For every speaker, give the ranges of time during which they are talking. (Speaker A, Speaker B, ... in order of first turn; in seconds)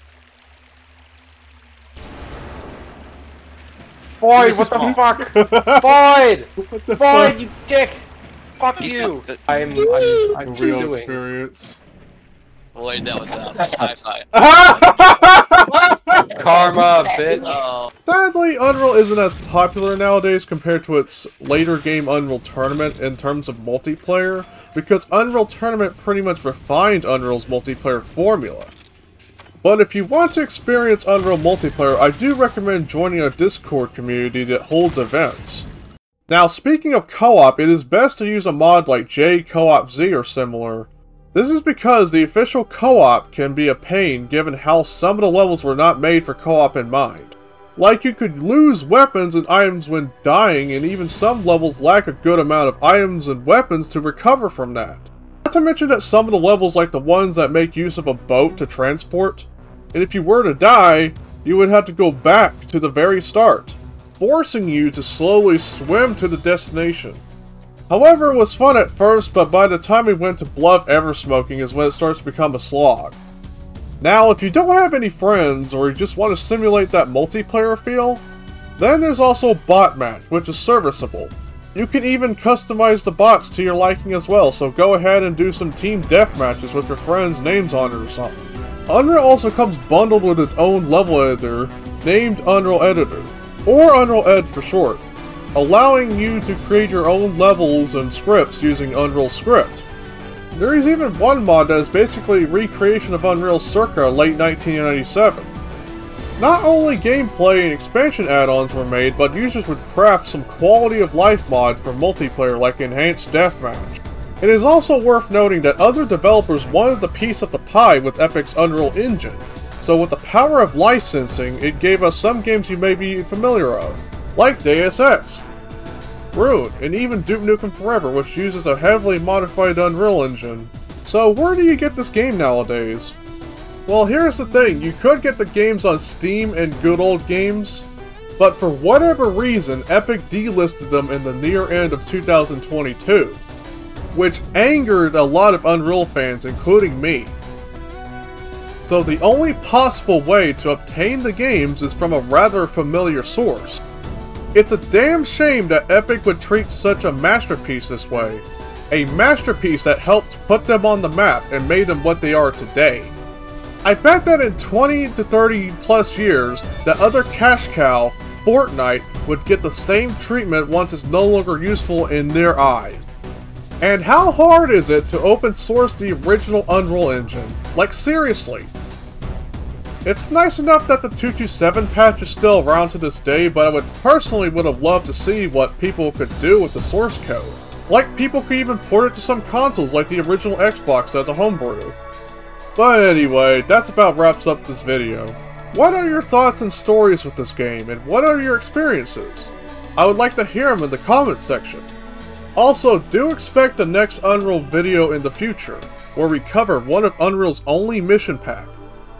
Speaker A: 4.2-11.2, 16.4-17.6
Speaker B: 4.4-5.0, 8.8-9.4, 12.8-14.9, 17.4-17.9
Speaker C: 4.7-6.0, 6.6-7.4, 10.4-11.8, 14.3-16.9, 18.1-28.7, 29.6-35.7, 36.3-67.2, 67.9-73.2, 74.0-78.2, 78.8-99.9, 100.5-105.5, 106.4-125.5, 126.3-133.2, 133.9-143.4, 144.1-147.4, 148.9-153.8, 154.5-163.2, 163.8-173.1, 173.8-178.7, 180.1-192.0, 192.8-201.9, 202.6-208.8